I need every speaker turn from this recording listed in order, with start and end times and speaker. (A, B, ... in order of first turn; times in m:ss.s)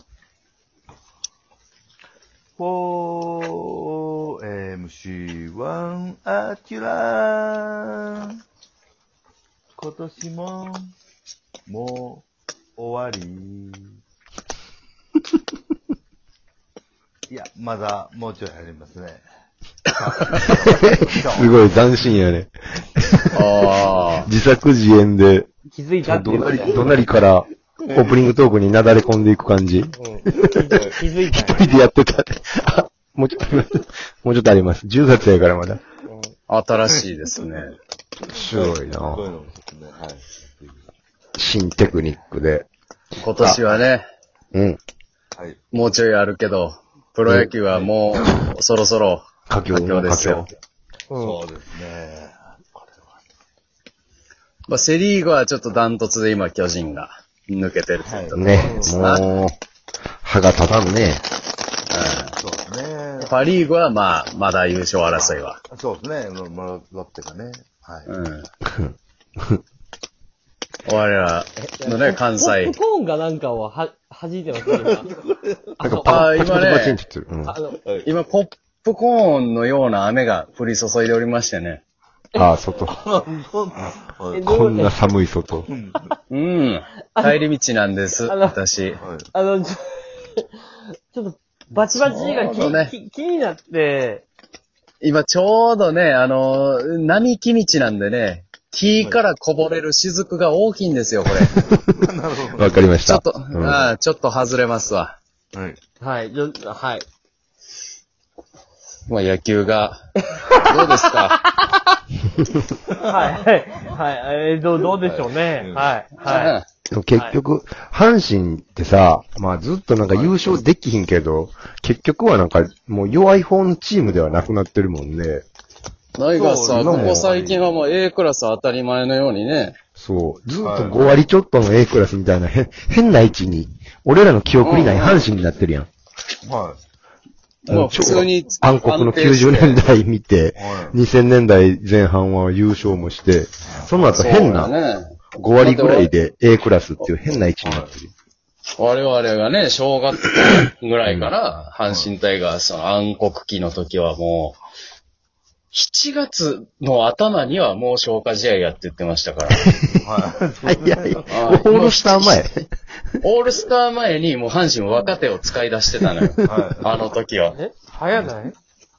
0:02.6-0:08.3 A
0:09.8-0:10.9 A
0:11.7-0:14.0 A
0:17.3-0:19.2 A
0:19.9-0:21.7 A
0:20.4-0:23.7 B
0:23.3-0:24.3 C
0:24.2-0:25.5 B
0:25.7-0:27.0 D
0:26.0-0:30.8 B
0:27.8-0:28.1 A
0:30.0-0:31.6 D
0:31.3-0:35.8 B
0:36.5-0:37.8 C
0:38.3-0:39.3 B
0:38.5-0:40.9 A
0:41.4-0:42.7 B
0:43.2-0:44.0 C
0:43.4-0:43.7 B
0:44.5-0:44.8 B
0:45.7-0:50.5 C
0:49.5-0:50.4 B
0:51.1-0:51.4 D
0:51.2-0:53.2 A
0:54.7-0:59.3 C
0:58.0-0:58.8 A
0:58.3-0:59.6 B
0:58.6-0:58.9 D
1:00.2-1:01.2 B
1:01.9-1:02.3 C
1:02.4-1:03.3 A
1:03.2-1:05.6 C
1:05.0-1:08.1 A
1:08.1-1:08.5 C
1:08.6-1:09.6 B
1:10.8-1:12.8 C
1:11.6-1:15.1 D
1:14.8-1:15.7 A
1:15.8-1:16.3 D
1:15.8-1:17.6 B
1:16.0-1:17.0 C
1:17.4-1:17.8 D
1:17.8-1:18.1 A
1:18.0-1:21.8 C
1:22.4-1:23.1 B
1:22.9-1:24.4 A
1:24.3-1:25.1 D
1:24.4-1:25.7 B
1:25.7-1:26.1 A
1:26.3-1:29.0 C
1:27.1-1:27.4 D
1:28.2-1:28.6 D
1:29.0-1:29.3 A
1:29.3-1:34.3 D
1:32.0-1:32.8 A
1:32.4-1:32.9 C
1:35.0-1:41.6 C
1:41.4-1:41.9 B
1:42.0-1:42.9 A
1:42.6-1:43.9 B
1:43.0-1:45.2 C
1:45.5-1:45.8 A
1:46.0-1:47.1 D
1:49.1-1:50.0 C
1:50.2-1:52.0 D
1:50.5-1:51.4 C
1:52.9-1:53.4 A
1:53.1-1:56.6 D
1:54.8-1:56.0 A
1:56.2-1:56.6 C
1:56.9-2:05.4 B
2:00.1-2:00.4 A
2:06.2-2:09.8 C
2:06.3-2:07.8 A
2:06.7-2:07.3 B
2:10.0-2:15.9 B
2:10.5-2:11.0 A
2:14.6-2:15.2 C
2:16.4-2:16.8 A
2:17.7-2:19.8 C
2:17.7-2:24.7 B
2:20.6-2:21.0 A
2:23.7-2:24.4 A
2:24.2-2:26.1 C
2:25.4-2:28.1 B
2:27.6-2:27.9 A
2:28.8-2:34.6 C
2:31.1-2:31.3 B
2:35.7-2:39.7 C
2:39.6-2:40.0 B
2:40.0-2:41.4 A
2:40.6-2:43.2 B
2:41.3-2:42.5 C
2:43.2-2:47.6 C
2:46.4-2:47.1 A
2:47.5-2:48.6 D